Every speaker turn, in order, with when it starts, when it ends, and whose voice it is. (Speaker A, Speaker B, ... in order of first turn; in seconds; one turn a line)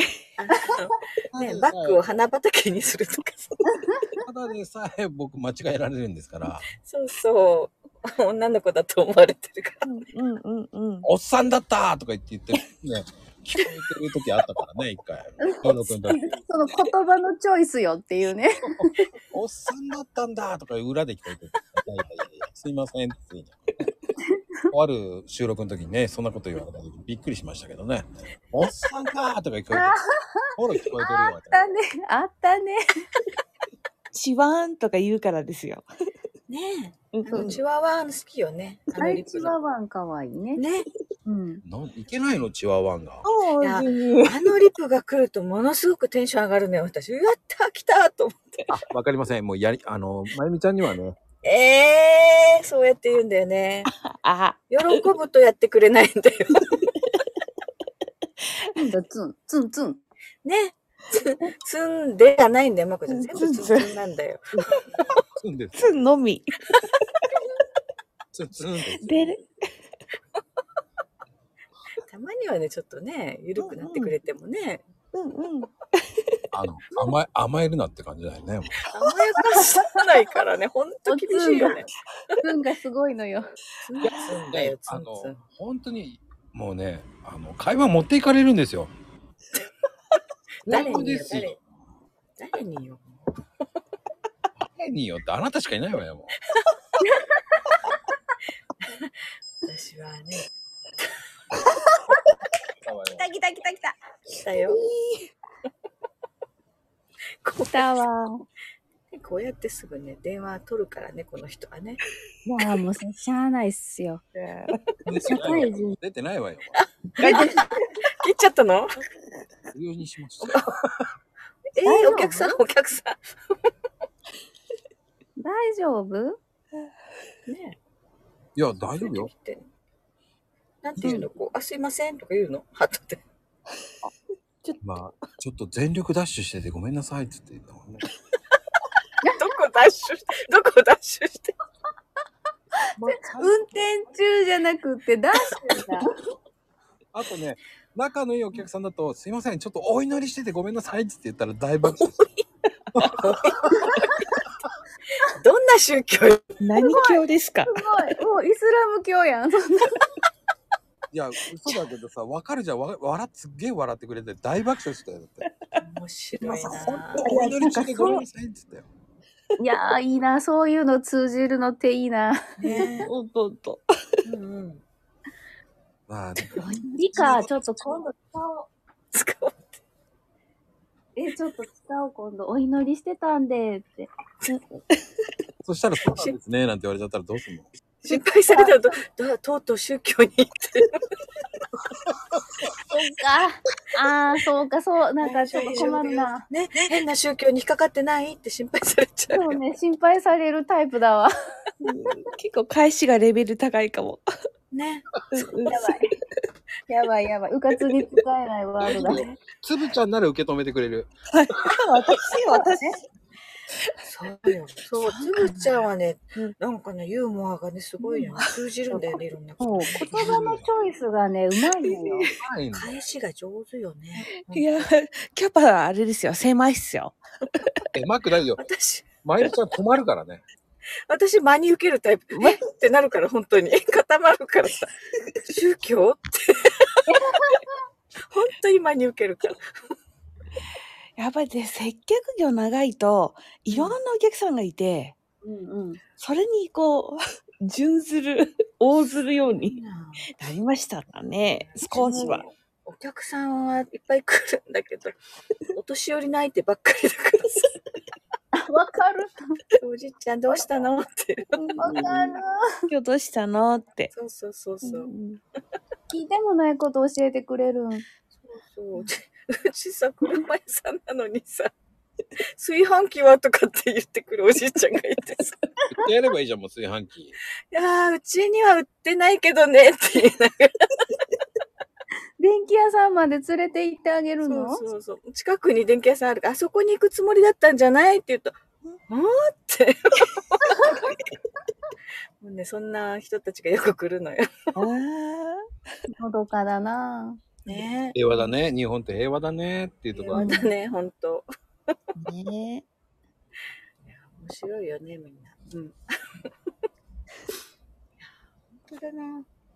Speaker A: 0.4-3.6
Speaker B: 1.7-2.0
Speaker C: 3.7-4.1
Speaker B: 4.2-6.7
Speaker A: 6.8-9.8
Speaker D: 9.8-11.1
Speaker B: 11.0-16.2
Speaker C: 15.4-19.1
Speaker B: 19.3-23.9
Speaker B: 24.7-30.0
Speaker C: 29.7-30.4
Speaker B: 30.6-31.6
Speaker C: 31.0-32.8
Speaker D: 34.1-35.9
Speaker A: 36.5-39.5
Speaker D: 37.1-37.6
Speaker C: 37.3-37.5
Speaker C: 39.0-40.6
Speaker A: 40.6-40.9
Speaker C: 41.2-41.6
Speaker B: 41.6-43.2
Speaker D: 43.2-44.5
Speaker A: 43.6-48.7
Speaker B: 48.7-51.2
Speaker A: 51.4-53.9
Speaker D: 53.9-55.0
Speaker A: 54.7-56.8
Speaker C: 58.8-60.0
Speaker A: 60.4-65.0
Speaker D: 63.1-63.9
Speaker B: 65.4-66.0
Speaker D: 65.8-66.6
Speaker B: 68.3-69.3
Speaker D: 69.0-69.5
Speaker A: 72.1-74.8
Speaker D: 73.6-74.1
Speaker D: 75.1-75.7
Speaker B: 76.5-78.8
Speaker A: 78.9-81.9
Speaker C: 81.1-81.8
Speaker C: 82.4-83.5
Speaker A: 83.8-85.4
Speaker B: 84.0-88.9
Speaker B: 90.7-91.6
Speaker A: 90.7-91.6
Speaker A: 92.4-93.2
Speaker B: 94.6-96.3
Speaker A: 99.6-100.5
Speaker B: 102.8-103.3
Speaker C: 103.1-103.9
Speaker A: 104.4-104.9
Speaker D: 104.6-105.3
Speaker A: 107.4-108.0
Speaker C: 107.7-108.4
Speaker A: 109.1-112.0
Speaker C: 112.4-114.2
Speaker D: 114.3-114.8
Speaker B: 115.0-116.8
Speaker C: 115.1-116.0
Speaker A: 116.8-118.9
Speaker C: 117.2-117.6
Speaker B: 119.7-121.0
Speaker A: 120.4-120.7
Speaker A: 121.8-123.2
Speaker C: 121.8-122.5
Speaker C: 125.4-126.4
Speaker A: 127.5-127.8
Speaker B: 128.6-129.3
Speaker A: 128.8-129.7
Speaker A: 130.8-133.2
Speaker B: 134.8-138.1
Speaker A: 139.3-141.5
Speaker B: 143.0-143.5
Speaker C: 143.0-146.1
Speaker B: 147.1-152.2
Speaker B: 152.9-153.6
Speaker A: 153.2-153.5
Speaker A: 155.4-156.4
Speaker D: 156.6-157.7
Speaker C: 156.8-159.9
Speaker B: 161.1-165.5
Speaker A: 165.8-167.2
Speaker B: 166.4-168.9
Speaker C: 167.2-168.2
Speaker C: 169.6-173.0
Speaker A: 172.6-173.1
Speaker D: 172.7-173.9
Speaker A: 174.2-174.8
Speaker B: 176.1-176.7
Speaker C: 176.6-178.7
Speaker A: 177.2-177.4
Speaker A: 179.1-179.6
Speaker C: 181.1-184.1
Speaker D: 184.5-185.0
Speaker B: 185.6-187.7
Speaker A: 188.0-190.9
Speaker C: 188.1-188.8
Speaker C: 192.9-196.4
Speaker A: 195.2-199.6
Speaker C: 199.3-201.3
Speaker D: 201.8-204.2
Speaker A: 204.7-205.7
Speaker D: 205.4-205.8
Speaker C: 205.7-206.1
Speaker C: 206.9-209.2
Speaker B: 208.8-211.1
Speaker A: 208.9-209.4
Speaker D: 211.3-212.9
Speaker A: 214.1-220.5
Speaker D: 215.0-215.7
Speaker D: 218.1-218.5
Speaker C: 218.9-222.3
Speaker B: 220.1-220.6
Speaker D: 221.8-222.3
Speaker B: 222.4-223.0
Speaker A: 222.7-224.9
Speaker D: 224.2-227.2
Speaker B: 227.9-228.6
Speaker A: 228.6-229.1
Speaker B: 229.2-230.4
Speaker A: 231.1-234.9
Speaker D: 232.3-232.6
Speaker A: 235.4-236.9
Speaker C: 237.1-237.6
Speaker A: 238.3-239.6
Speaker D: 241.2-245.1
Speaker A: 243.7-244.0
Speaker C: 245.4-246.0
Speaker D: 246.2-249.8
Speaker A: 249.5-250.3
Speaker D: 250.3-252.4
Speaker A: 251.4-255.2
Speaker C: 251.9-252.4
Speaker A: 255.7-257.7
Speaker C: 258.6-259.4
Speaker A: 259.8-262.0
Speaker D: 261.5-262.3
Speaker C: 261.8-262.6
Speaker D: 262.9-264.1
Speaker A: 264.1-265.1
Speaker D: 264.8-265.4
Speaker C: 266.1-268.0
Speaker A: 268.4-271.7
Speaker A: 272.6-275.6
Speaker B: 275.9-277.4
Speaker A: 277.7-280.7
Speaker C: 282.4-284.8
Speaker A: 284.4-288.6
Speaker A: 289.1-291.0
Speaker A: 292.4-294.7
Speaker D: 294.8-295.6
Speaker C: 296.1-297.4
Speaker A: 297.6-298.1
Speaker B: 298.1-300.5
Speaker A: 300.1-301.4
Speaker C: 300.3-300.7
Speaker D: 302.2-302.8
Speaker A: 304.1-306.0
Speaker A: 308.2-309.4